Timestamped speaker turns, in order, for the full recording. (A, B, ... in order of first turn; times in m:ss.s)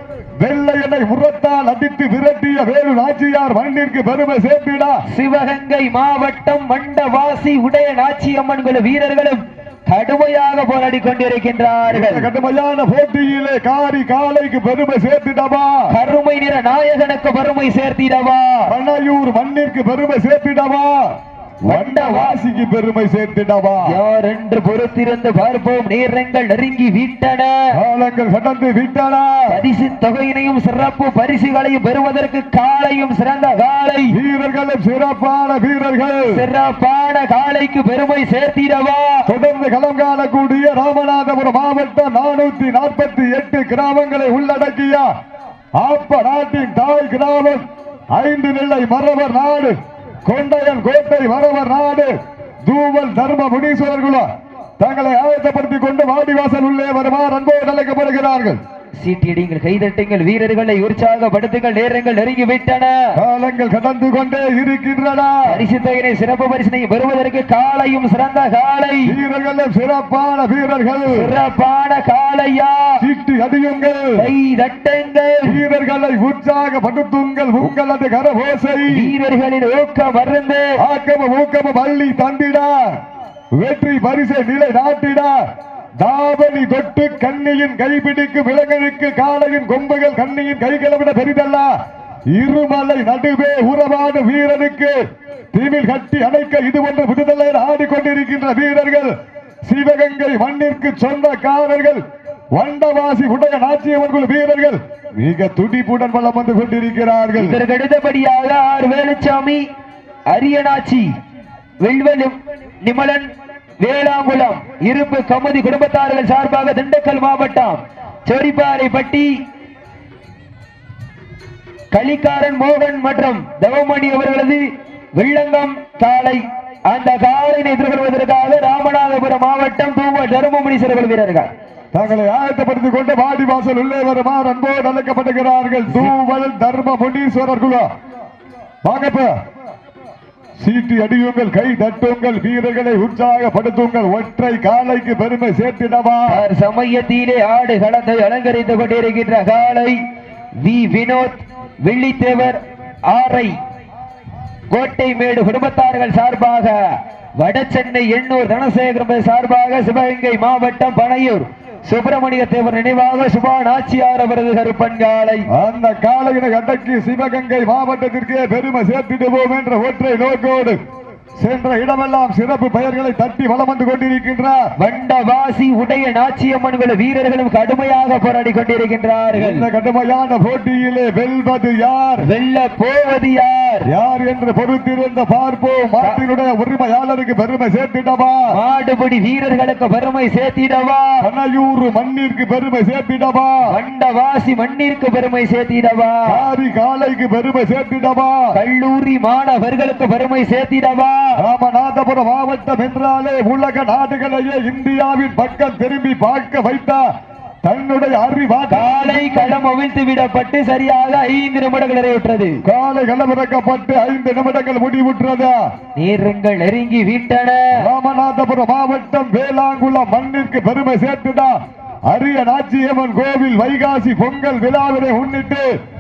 0:00.4-0:05.0 A
0:05.1-0:12.3 B
0:11.9-0:15.9 A
0:15.9-0:18.7 B
0:18.7-0:21.0 A
0:21.7-0:24.0 A
0:21.7-0:22.4 B
0:23.9-0:27.6 B
0:27.7-0:29.5 A
0:29.5-0:34.2 B
0:34.1-0:36.3 A
0:36.3-0:39.3 B
0:39.3-0:45.1 A
0:45.8-0:47.6 A
0:48.2-0:52.1 A
0:52.6-0:54.3 A
0:54.8-0:58.6 A
0:59.0-1:03.2 B
1:03.2-1:05.6 A
1:05.5-1:09.2 B
1:09.0-1:11.3 A
1:11.1-1:13.0 B
1:13.0-1:14.2 A
1:14.2-1:15.6 B
1:15.4-1:19.0 A
1:18.9-1:20.7 B
1:20.8-1:22.9 A
1:23.6-1:25.4 A
1:26.0-1:31.7 A
1:32.4-1:35.0 A
1:35.5-1:39.1 A
1:39.7-1:42.0 A
1:42.6-1:47.6 A
1:47.4-1:49.6 B
1:50.3-1:51.1 B
1:51.8-1:59.3 B
2:01.9-2:04.6 B
2:05.2-2:11.5 B
2:11.9-2:17.9 A
2:18.8-2:19.3 A
2:20.6-2:26.4 A
2:26.3-2:30.0 B
2:30.6-2:33.6 B
2:34.7-2:36.8 B
2:37.4-2:45.5 B
2:45.5-2:50.8 A
2:51.4-2:54.6 A
2:54.8-2:59.7 B
2:59.4-3:02.3 A
3:02.2-3:03.9 B
3:03.9-3:08.5 A
3:08.5-3:11.3 B
3:11.2-3:13.6 A
3:13.7-3:16.4 B
3:16.3-3:18.5 A
3:18.5-3:21.3 B
3:21.4-3:27.0 A
3:27.6-3:29.6 A
3:28.7-3:32.6 B
3:32.6-3:35.6 A
3:36.0-3:37.8 B
3:37.7-3:41.6 A
3:42.1-3:45.7 A